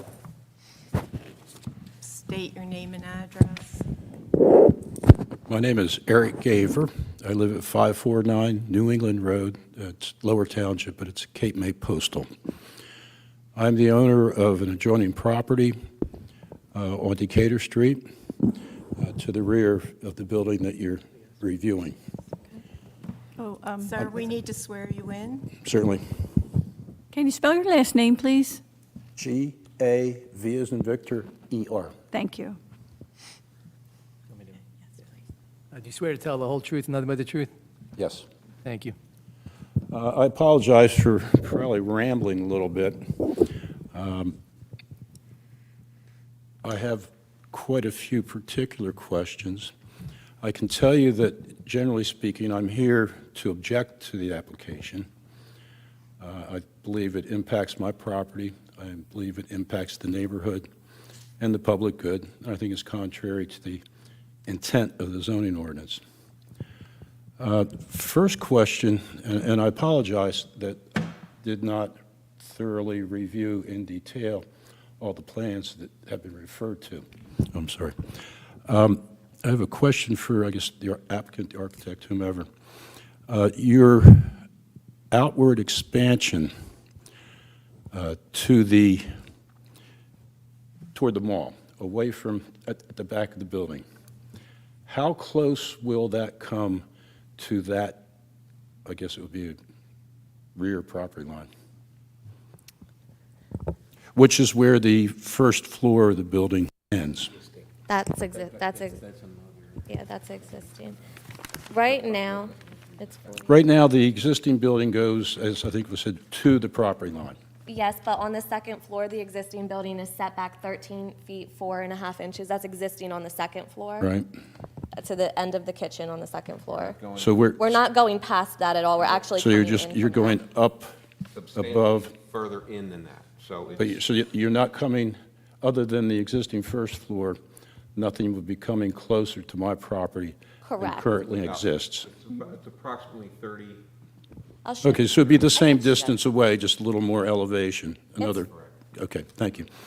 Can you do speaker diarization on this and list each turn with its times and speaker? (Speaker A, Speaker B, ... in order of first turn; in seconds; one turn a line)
Speaker A: 2.0-3.8
Speaker B: 5.5-12.3
Speaker B: 13.5-15.8
Speaker B: 16.7-18.0
Speaker B: 19.0-21.9
Speaker C: 23.4-23.9
Speaker A: 23.8-25.5
Speaker B: 25.6-26.0
Speaker C: 27.1-28.6
Speaker B: 29.2-31.9
Speaker C: 32.1-32.6
Speaker D: 35.7-37.5
Speaker B: 38.0-38.3
Speaker D: 38.7-39.0
Speaker B: 39.9-43.0
Speaker B: 43.9-44.4
Speaker B: 46.6-49.7
Speaker B: 50.4-55.0
Speaker B: 56.2-60.7
Speaker B: 61.4-63.8
Speaker B: 64.5-66.0
Speaker B: 67.4-74.4
Speaker B: 75.0-77.9
Speaker B: 78.7-82.5
Speaker B: 83.3-84.4
Speaker B: 85.1-86.5
Speaker B: 87.9-89.0
Speaker B: 90.9-93.8
Speaker B: 94.9-96.8
Speaker B: 97.4-98.0
Speaker B: 98.8-99.6
Speaker B: 100.5-101.5
Speaker B: 104.1-107.3
Speaker E: 107.9-109.0
Speaker E: 109.9-111.0
Speaker E: 111.7-113.5
Speaker B: 113.5-117.4
Speaker E: 117.7-124.1
Speaker B: 124.0-124.2
Speaker E: 124.9-127.0
Speaker F: 126.7-127.5
Speaker B: 127.2-127.8
Speaker E: 127.6-130.4
Speaker B: 129.4-130.9
Speaker F: 131.3-134.0
Speaker B: 131.6-132.1
Speaker B: 133.8-137.4
Speaker B: 137.9-142.1
Speaker E: 140.6-141.1
Speaker F: 141.4-143.8
Speaker E: 144.7-146.2
Speaker B: 144.8-149.7
Speaker F: 148.4-148.7